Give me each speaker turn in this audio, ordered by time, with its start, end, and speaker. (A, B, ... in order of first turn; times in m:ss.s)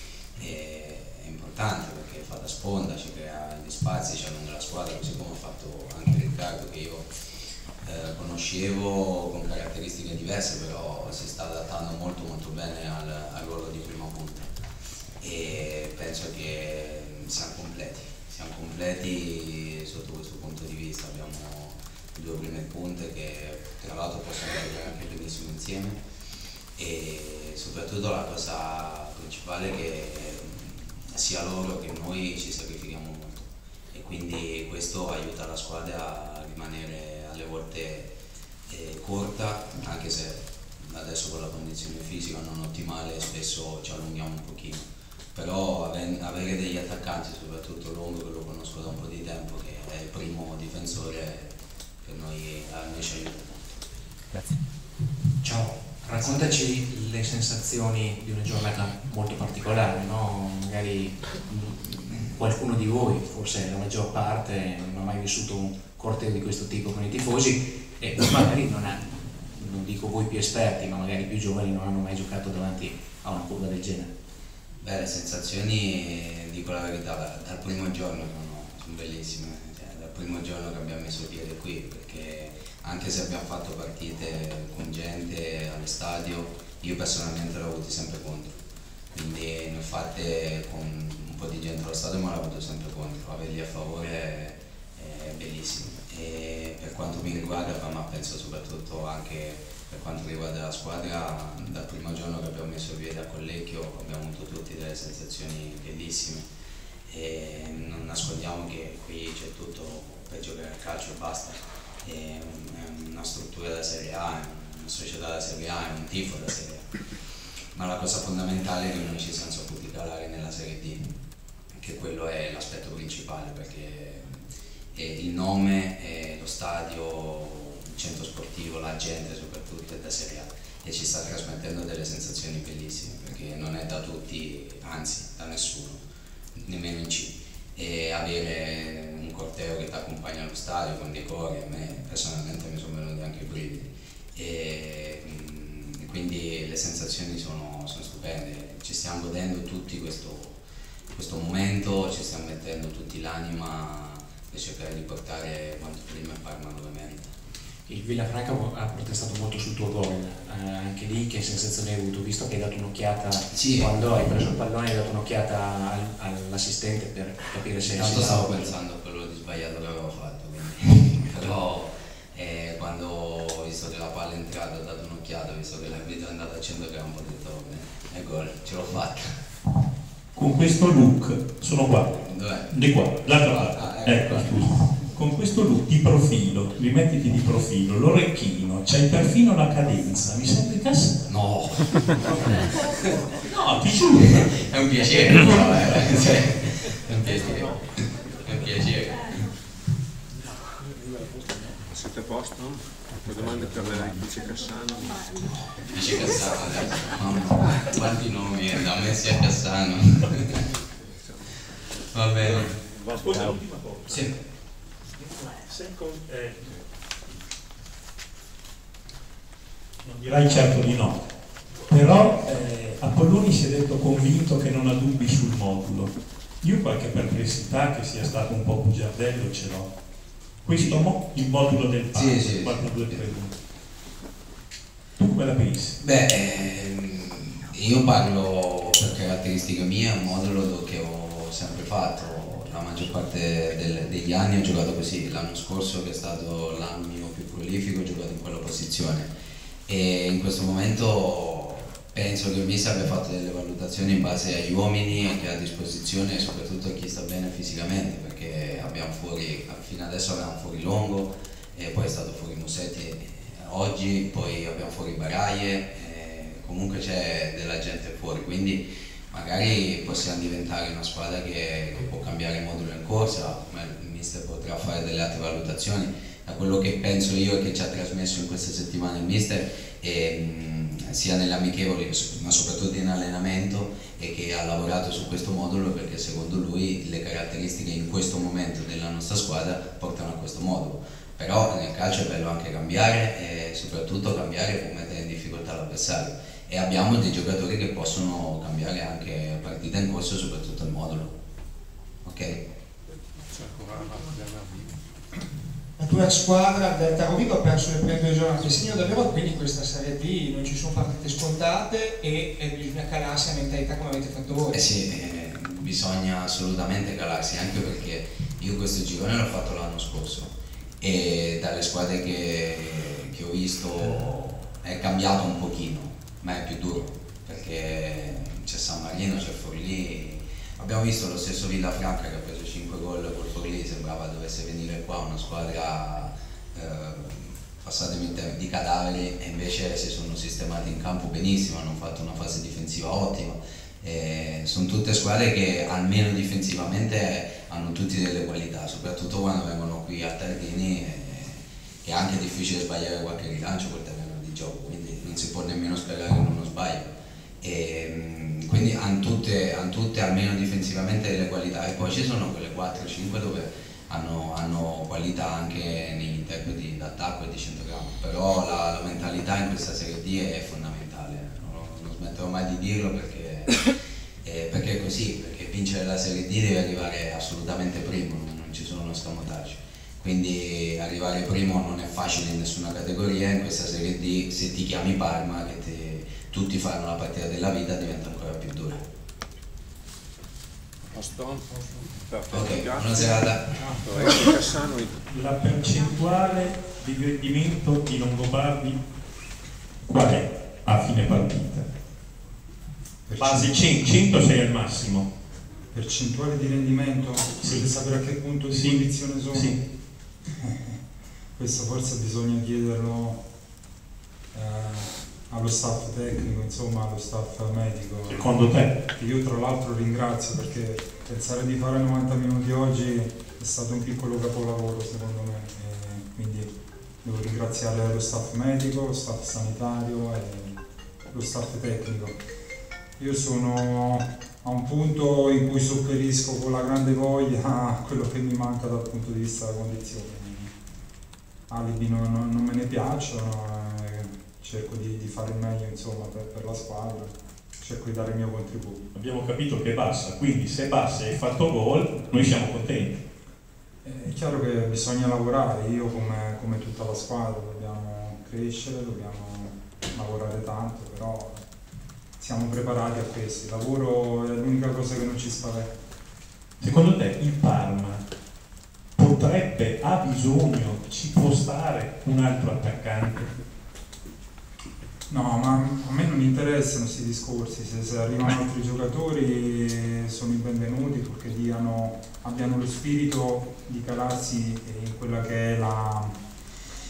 0:00.4-0:07.1 A
0:07.8-0:14.5 A
0:15.2-0:26.0 A
0:26.8-0:38.1 A
0:38.7-0:53.8 A
0:54.3-0:54.6 B
0:55.4-1:14.1 C
1:14.8-1:28.5 A
1:29.1-1:46.5 A
1:47.1-1:56.9 A
1:57.7-2:01.1 A
2:01.7-2:16.0 A
2:16.5-2:30.6 A
2:31.1-2:37.3 A
2:37.9-2:48.7 C
2:43.5-2:44.1 A
2:47.8-2:59.4 A
3:00.3-3:02.1 B
3:02.1-3:04.7 A
3:02.7-3:11.2 B
3:11.2-3:13.1 A
3:13.4-3:14.7 B
3:14.2-3:19.5 A
3:15.2-3:16.8 B
3:21.0-3:21.3 D
3:21.9-3:25.3 D
3:25.9-3:30.6 A
3:31.0-3:31.5 D
3:32.1-3:32.8 A
3:32.4-3:34.3 D
3:33.1-3:34.2 B
3:34.1-3:34.4 A
3:35.2-3:36.7 B
3:40.0-3:41.2 B
3:41.8-3:49.9 B
3:50.6-3:53.5 B
3:50.7-3:51.1 A
3:52.1-3:53.2 A
3:55.2-3:56.0 B
3:56.0-4:09.3 A
4:09.9-5:01.4 A
5:02.2-5:02.6 A
5:03.5-5:05.0 D
5:06.0-5:14.8 E
5:14.7-6:29.0 A
6:31.1-6:35.2 D
6:32.5-6:33.8 A
6:35.3-6:39.0 B
6:40.0-6:41.8 B
6:43.3-6:44.0 F
6:43.4-6:45.3 B
6:45.9-6:49.8 F
6:47.6-6:48.1 B
6:48.7-6:49.8 B
6:50.6-6:51.0 F
6:51.6-6:53.4 F
6:54.5-6:58.6 F
6:58.3-6:59.0 B
6:59.1-7:06.7 F
7:07.2-7:10.7 F
7:11.3-7:12.4 F
7:13.2-7:20.7 F
7:21.7-7:29.0 F
7:29.1-7:33.2 B
7:34.0-7:41.6 F
7:42.4-7:45.9 F
7:46.8-7:48.2 B
7:49.2-7:53.5 B
7:55.3-8:06.4 F